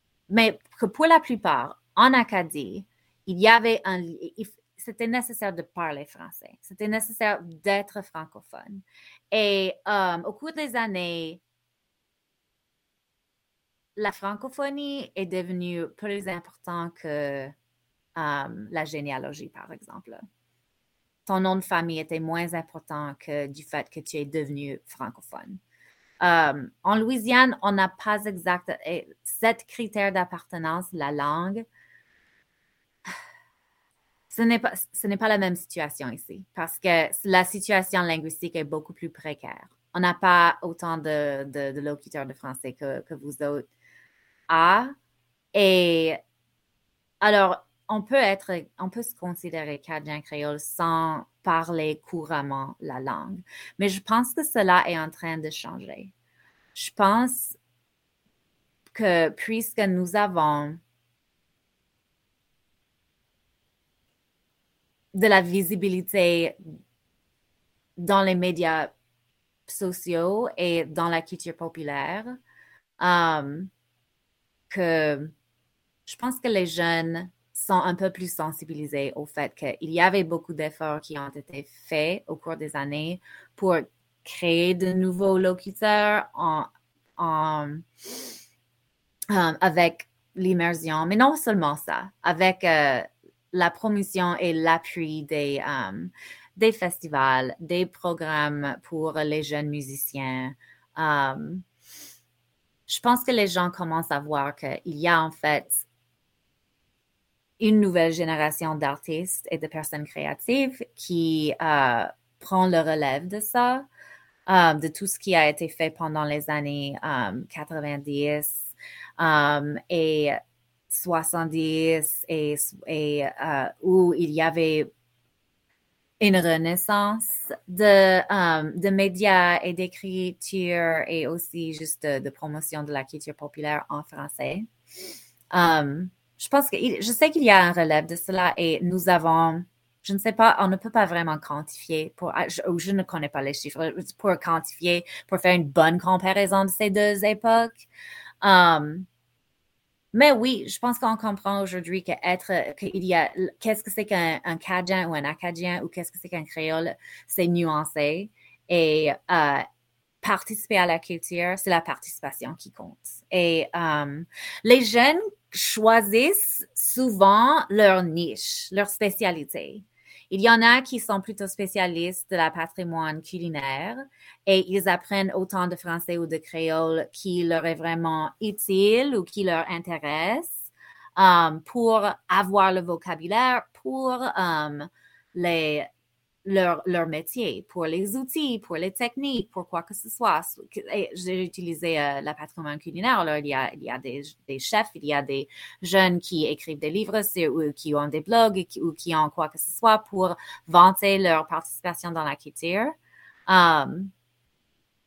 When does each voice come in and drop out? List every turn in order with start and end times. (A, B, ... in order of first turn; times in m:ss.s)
0:00.3-0:11.4 A
0:14.0-0:17.5 A
0:18.2-0:20.2 A
0:21.2-0:25.6 A
0:26.2-0:31.6 A
0:34.3-0:43.7 A
0:44.5-0:44.9 A
0:45.5-0:46.2 A
0:47.2-0:56.1 A
0:56.7-0:57.6 A
0:58.9-1:00.8 A
1:05.1-1:06.6 A
1:08.0-1:08.9 A
1:09.7-1:12.4 A
1:13.0-1:13.7 A
1:14.7-1:15.3 A
1:16.1-1:28.4 A
1:29.3-1:41.6 A
1:42.9-1:45.8 A
1:47.6-1:53.9 A
1:54.5-2:04.9 A
2:06.2-2:14.7 A
2:15.5-2:27.8 A
2:28.4-2:29.1 A
2:30.1-2:39.6 A
2:40.2-3:05.9 A
3:06.4-3:24.1 A